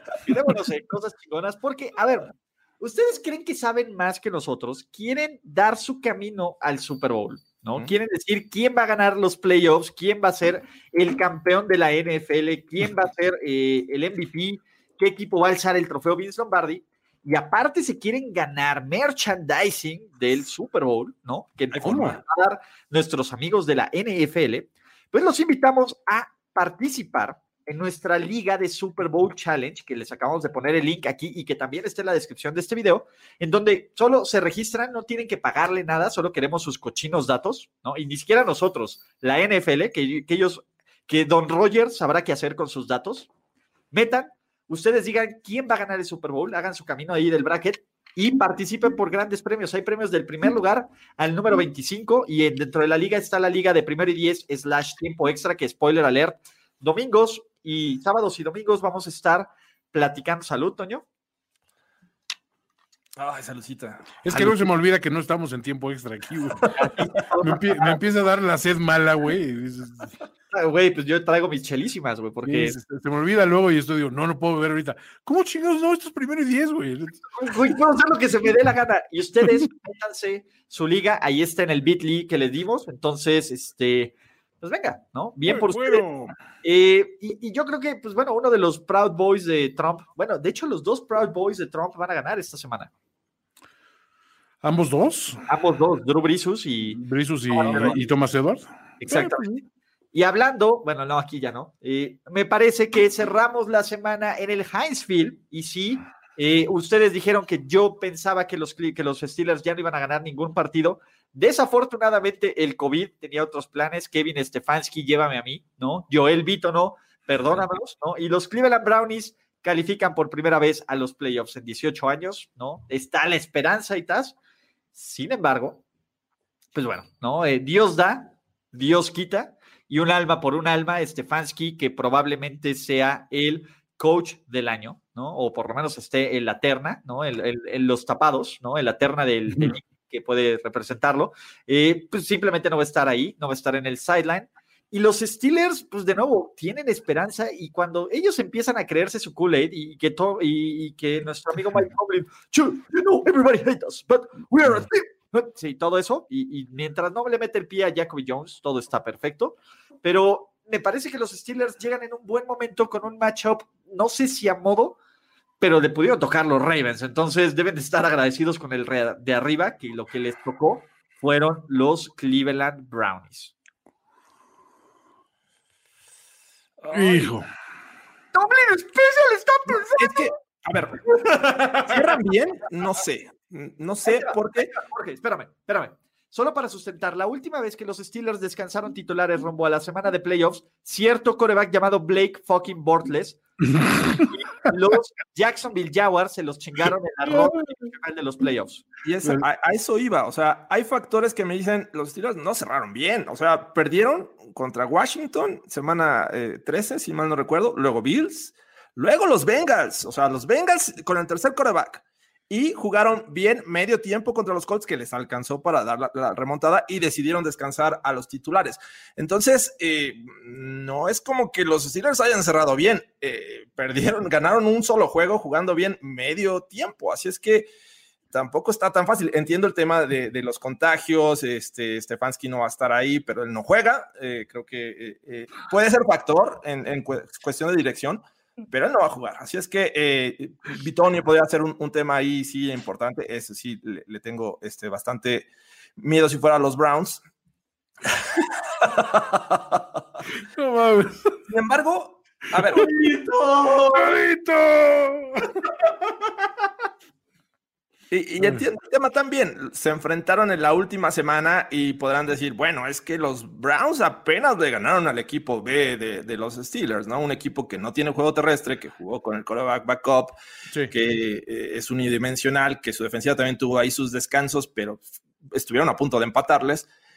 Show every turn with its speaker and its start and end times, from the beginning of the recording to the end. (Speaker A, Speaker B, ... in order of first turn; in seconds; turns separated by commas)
Speaker A: 0.2-43.3, Speaker B: 21.8-22.2, Speaker C: 21.8-22.1, Speaker A: 43.9-61.0, Speaker B: 63.2-64.7, Speaker C: 64.2-66.9, Speaker A: 66.8-68.0, Speaker C: 67.4-70.1, Speaker A: 70.5-72.8, Speaker C: 72.5-77.3, Speaker A: 77.3-86.1, Speaker C: 85.5-86.3, Speaker A: 86.6-92.9, Speaker C: 94.6-95.4, Speaker A: 95.5-97.0, Speaker C: 96.9-99.6, Speaker A: 97.5-98.0, Speaker A: 99.0-99.5, Speaker A: 100.1-124.3, Speaker A: 124.9-125.8, Speaker A: 126.7-165.0, Speaker A: 165.6-173.5, Speaker B: 176.8-177.3, Speaker C: 176.9-177.5, Speaker A: 178.3-180.3, Speaker B: 180.0-181.1, Speaker A: 181.2-182.0, Speaker B: 181.8-184.7, Speaker A: 184.1-193.4, Speaker C: 193.8-194.2, Speaker A: 194.2-198.8, Speaker B: 199.0-227.7, Speaker B: 228.3-247.2, Speaker B: 248.9-249.6, Speaker C: 250.3-251.2, Speaker B: 251.5-252.9, Speaker A: 252.7-254.2, Speaker C: 253.9-255.5, Speaker B: 258.1-270.4, Speaker C: 258.4-258.6, Speaker B: 270.9-276.9